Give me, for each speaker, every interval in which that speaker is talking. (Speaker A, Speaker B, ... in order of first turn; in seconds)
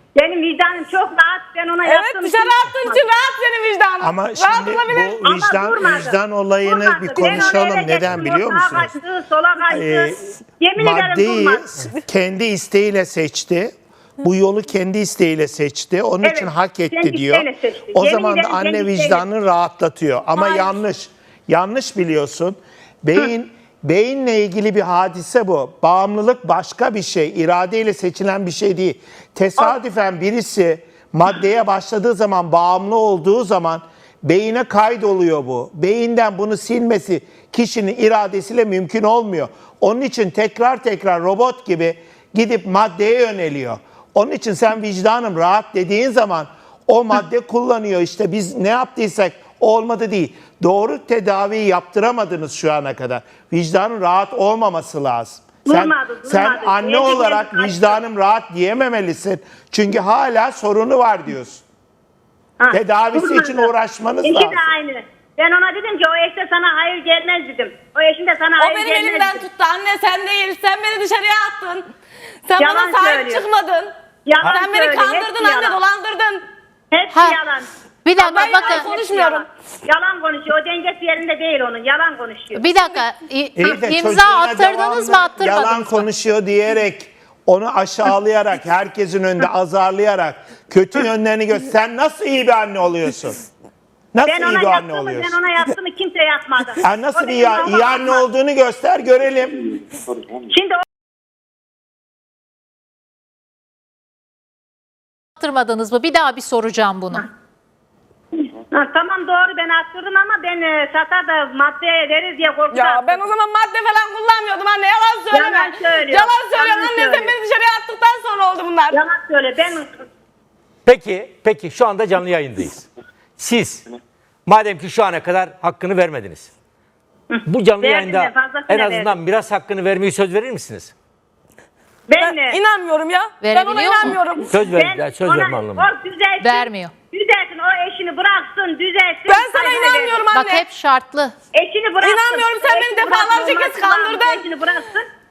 Speaker A: 0.1-3.0, 5.2-11.6, 16.2-19.2, 55.6-58.0, 62.6-63.7, 64.2-69.4, 72.6-73.4, 74.2-75.8, 76.9-77.7, 78.2-82.7, 94.2-98.2, 100.5-100.8, 108.7-113.2, 115.3-117.3, 118.9-119.9, 127.3-129.1, 132.1-132.6, 134.3-140.2, 141.5-145.1
Speaker B: 1.8-5.2, 68.6-71.9, 72.5-76.4, 78.2-79.5, 112.7-119.0, 132.2-134.6, 139.2-140.6, 142.0-144.5
Speaker C: 4.0-8.9, 9.7-10.2, 10.8-61.6, 62.7-64.6, 83.6-93.4, 94.1-95.4, 96.8-99.8
Speaker D: 77.1-77.4, 78.0-78.9, 82.5-86.1, 105.4-107.3, 133.4-134.2, 136.4-136.9, 140.3-141.3
Speaker E: 120.8-126.5, 127.5-130.9, 134.5-135.9